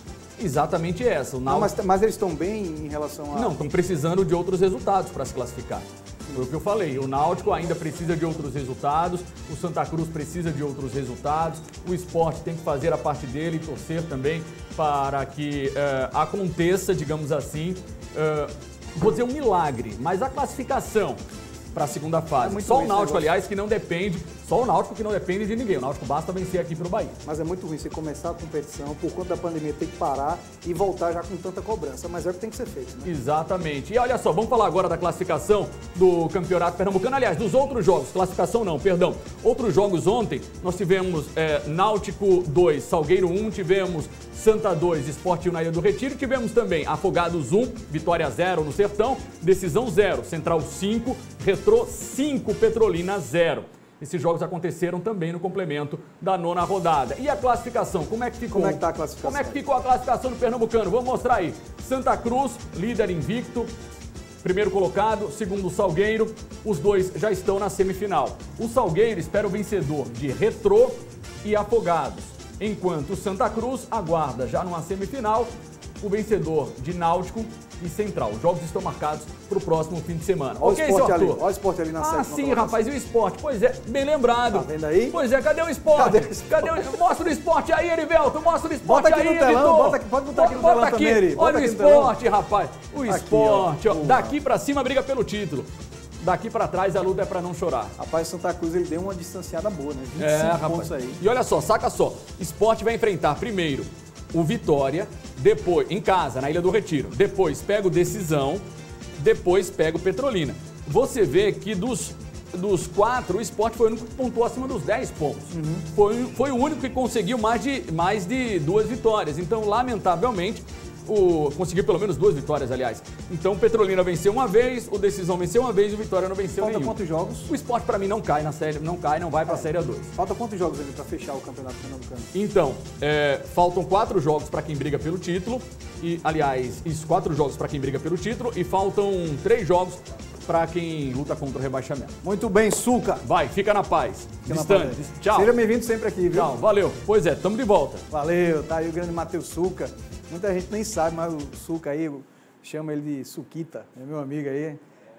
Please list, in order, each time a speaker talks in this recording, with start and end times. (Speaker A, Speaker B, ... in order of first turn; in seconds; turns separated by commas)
Speaker A: 0.4-1.7, Speaker B: 1.5-3.6, Speaker A: 3.3-21.2, Speaker A: 21.7-27.2, Speaker B: 22.4-23.3, Speaker B: 27.2-33.1, Speaker A: 33.0-63.7, Speaker B: 58.5-59.6, Speaker A: 64.4-81.4, Speaker B: 80.6-82.9, Speaker A: 82.0-97.9, Speaker B: 84.5-85.2, Speaker B: 85.9-87.0, Speaker B: 88.8-92.2, Speaker B: 93.1-94.4, Speaker B: 98.0-101.2, Speaker A: 100.2-108.6, Speaker A: 109.2-127.0, Speaker B: 115.5-115.9, Speaker B: 126.6-127.5, Speaker A: 127.5-130.1, Speaker B: 129.5-132.3, Speaker A: 132.3-142.2, Speaker B: 142.2-143.2, Speaker A: 143.2-145.5, Speaker B: 144.4-146.5, Speaker A: 146.3-148.1, Speaker B: 148.1-154.8